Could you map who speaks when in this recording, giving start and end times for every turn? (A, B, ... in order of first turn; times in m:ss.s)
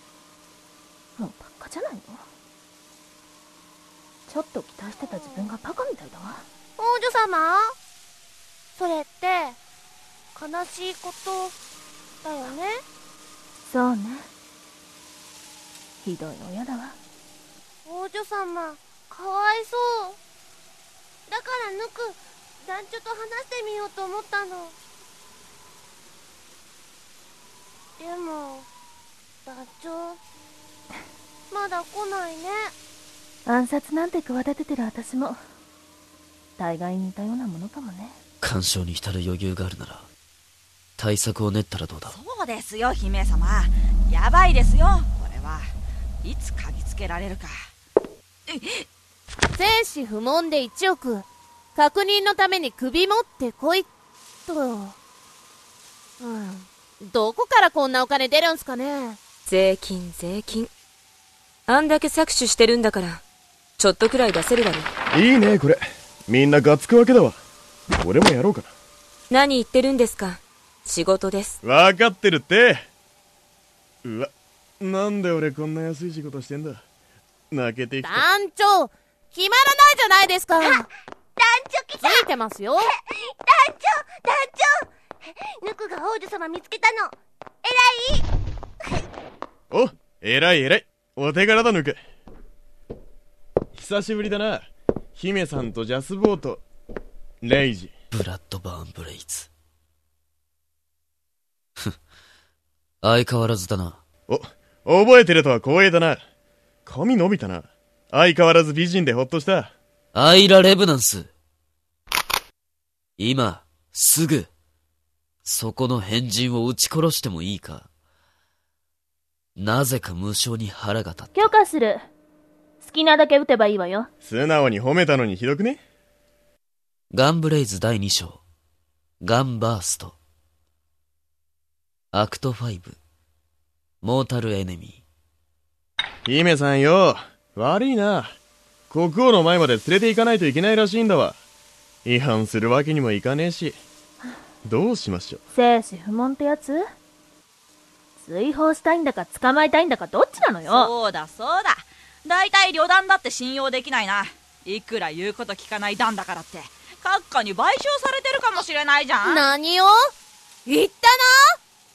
0:01.2-0:02.2 A
0:04.3-0:06.4 A
0:06.8-0:07.8 B
0:08.8-0:09.6 B
0:10.3-0:11.6 B
0:12.2-0:12.8 B
0:13.6-0:14.3 A
0:16.0-0:17.0 A
0:17.8-0:20.2 B
0:21.3-0:24.7 B
0:28.0-0:28.7 B
0:29.4-0:30.2 B
0:31.5-0:32.7 B
0:33.4-0:35.4 A
0:36.6-0:38.2 A
0:38.4-0:40.1 C
0:41.0-0:42.2 C
0:42.1-0:45.7 D
0:46.2-0:47.5 D
0:49.5-0:51.2 E
0:51.8-0:53.9 E
0:54.5-0:55.0 E
0:56.2-0:59.2 E
0:59.5-1:00.7 F
1:01.7-1:03.2 F
1:03.8-1:04.9 F
1:05.1-1:07.4 G
1:08.0-1:08.7 G
1:09.3-1:11.6 F
1:11.6-1:12.8 G
1:14.0-1:16.8 G
1:17.5-1:18.2 G
1:18.0-1:20.9 E
1:20.6-1:20.9 B
1:21.4-1:22.3 B
1:22.0-1:22.9 E
1:23.4-1:24.8 B
1:25.6-1:27.1 B
1:27.6-1:28.2 B
1:29.7-1:32.0 G
1:33.7-1:36.6 G
1:37.4-1:37.9 G
1:38.1-1:39.5 C
1:43.0-1:44.0 C
1:44.3-1:46.2 G
1:46.8-1:49.7 G
1:50.1-1:51.3 C
1:53.2-1:54.5 C
1:55.4-1:57.9 C
1:59.6-2:01.5 C
2:01.3-2:02.0 A
2:02.8-2:04.1 A
2:04.2-2:05.8 G
2:07.1-2:08.4 C
2:09.2-2:10.2 C
2:12.1-2:13.0 C
2:14.0-2:15.0 C
2:16.2-2:18.3 G
2:18.9-2:21.4 G
2:22.0-2:23.8 G
2:24.6-2:25.4 G
2:25.5-2:26.8 A
2:28.2-2:30.9 A
2:30.6-2:39.4 D
2:39.2-2:40.1 E
2:40.6-2:41.4 E